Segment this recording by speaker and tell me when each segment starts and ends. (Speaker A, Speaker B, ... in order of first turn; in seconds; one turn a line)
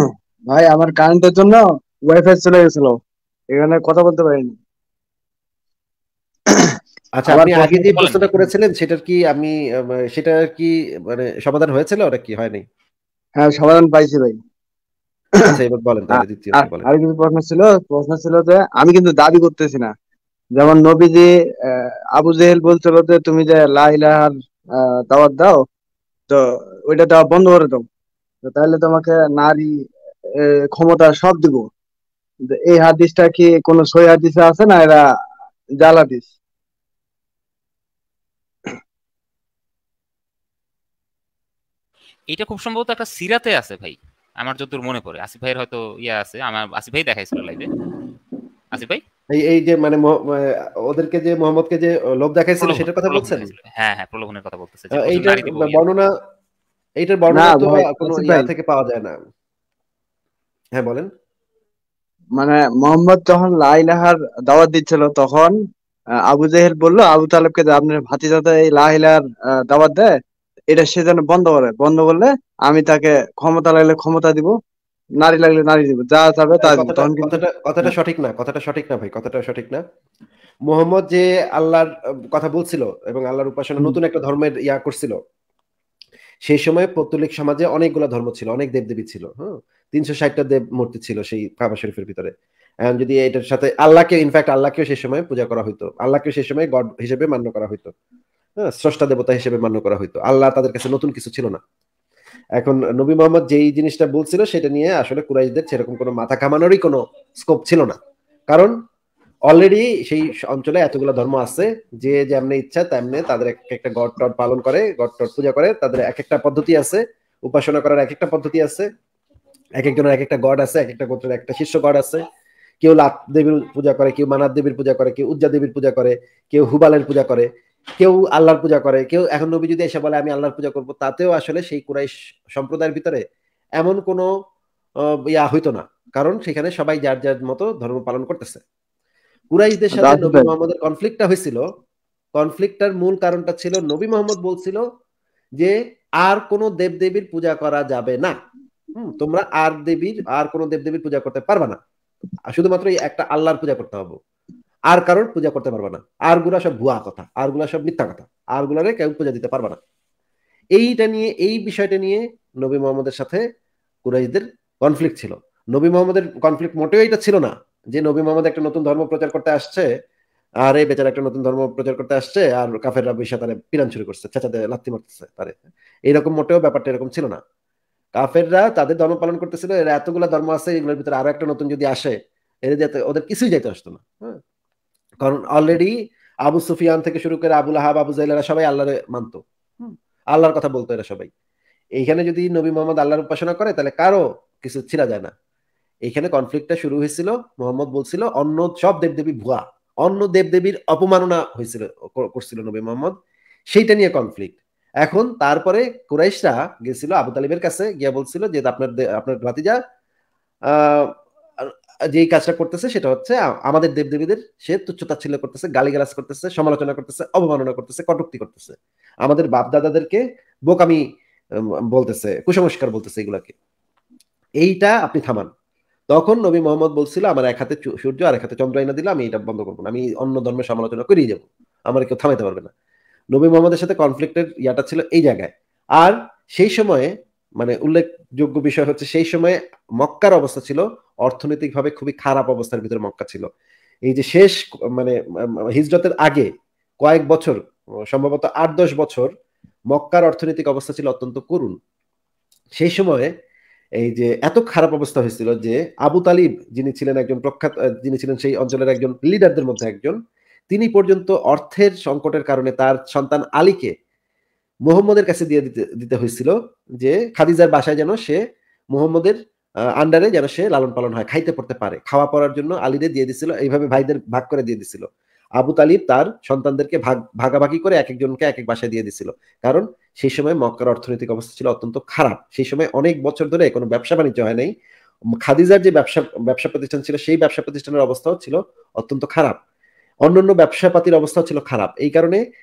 Speaker A: 0.5-3.0
Speaker A: 3.5-4.5
Speaker B: 7.2-12.6
Speaker A: 7.3-7.9
Speaker C: 7.9-8.3
Speaker A: 13.4-14.4
Speaker B: 15.4-16.9
Speaker A: 16.1-19.9
Speaker A: 20.6-25.6
Speaker A: 26.3-27.9
Speaker A: 28.4-29.7
Speaker A: 30.4-31.7
Speaker A: 32.5-35.0
Speaker A: 35.8-36.3
Speaker C: 42.3-47.7
Speaker C: 48.7-49.0
Speaker B: 49.3-53.5
Speaker C: 52.6-55.8
Speaker B: 54.9-56.1
Speaker B: 57.0-59.1
Speaker A: 57.3-58.5
Speaker B: 60.8-61.1
Speaker A: 62.4-65.5
Speaker A: 66.3-70.1
Speaker A: 70.7-74.5
Speaker A: 75.2-77.9
Speaker B: 76.6-79.8
Speaker B: 80.7-85.2
Speaker B: 86.5-92.3
Speaker B: 92.9-97.9
Speaker B: 98.6-101.6
Speaker B: 102.6-108.0
Speaker B: 109.5-118.9
Speaker B: 119.8-122.2
Speaker B: 122.8-127.5
Speaker B: 128.0-133.2
Speaker B: 133.8-134.3
Speaker B: 135.3-138.6
Speaker B: 139.5-141.6
Speaker A: 139.9-140.5
Speaker B: 142.3-144.8
Speaker B: 145.6-148.3
Speaker B: 148.9-151.8
Speaker B: 152.5-154.2
Speaker B: 154.9-159.8
Speaker B: 160.8-163.4
Speaker B: 164.1-169.9
Speaker B: 170.6-177.4
Speaker B: 178.2-184.4
Speaker B: 185.2-185.9
Speaker B: 186.5-191.3
Speaker B: 192.0-195.3
Speaker B: 196.1-203.1
Speaker B: 203.7-209.8
Speaker B: 210.7-211.1
Speaker B: 211.6-221.0
Speaker B: 221.9-223.5
Speaker B: 224.6-225.5
Speaker B: 226.1-232.7
Speaker B: 233.3-237.1
Speaker B: 237.6-243.5
Speaker B: 244.1-245.2
Speaker B: 245.7-246.5
Speaker B: 247.0-247.6
Speaker B: 248.1-249.3
Speaker B: 249.9-251.7
Speaker B: 252.8-253.3
Speaker B: 254.0-260.2
Speaker B: 260.7-263.9
Speaker B: 264.9-268.4
Speaker B: 268.9-269.4
Speaker B: 270.0-275.1
Speaker B: 275.6-284.7
Speaker B: 285.4-289.6
Speaker B: 290.3-292.4